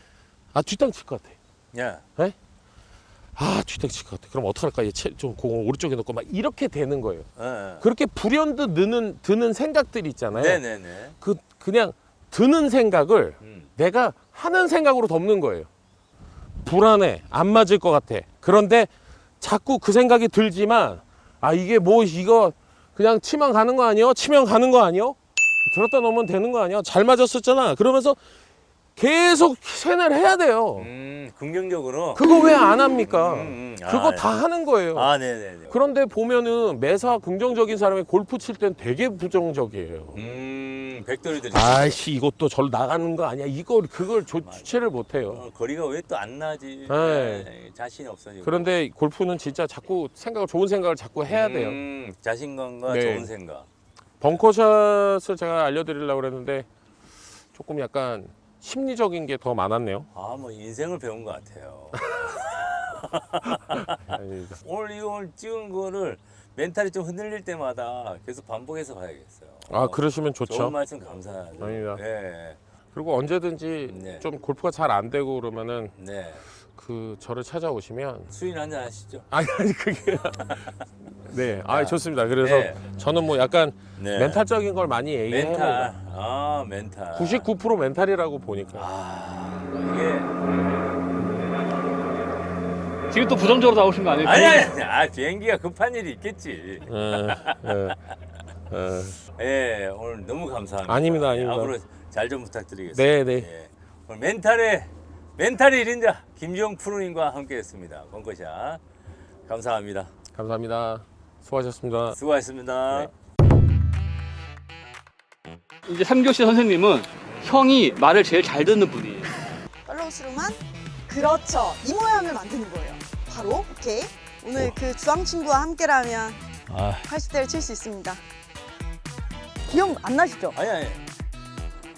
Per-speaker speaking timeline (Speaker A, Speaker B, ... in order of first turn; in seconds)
Speaker A: 0.5-1.4, 3.4-7.3, 7.8-10.6, 11.2-15.7, 16.6-28.2, 28.9-30.9, 32.1-35.1, 35.7-40.2, 41.5-45.4, 46.9-47.5, 48.4-51.8, 52.9-53.3, 54.2-56.7, 57.5-60.1, 63.7-64.6, 69.7-70.7, 71.6-72.0, 72.9-75.9, 76.8-78.3, 79.3-80.6, 81.2-85.9, 87.1-88.9, 96.9-98.0, 98.7-99.2, 100.9-101.7, 102.9-103.5, 110.3-112.2
Speaker B: 1.7-2.0, 7.4-7.9, 10.3-11.1, 13.4-13.7, 30.8-32.2, 33.0-34.3, 34.9-35.8, 40.1-42.0, 45.3-48.7, 51.3-53.7, 60.1-64.0, 64.6-72.6, 73.9-74.2, 76.0-76.4, 78.3-79.3, 80.4-80.7, 81.7-82.8, 84.0-84.4, 85.3-87.5, 88.8-90.3, 94.2-97.8, 99.4-108.8, 109.5-110.1, 112.1-113.1, 126.7-127.1, 130.5-131.0
Speaker C: 93.1-94.7, 115.9-119.3
Speaker D: 119.9-126.4, 127.0-128.2, 129.7-130.6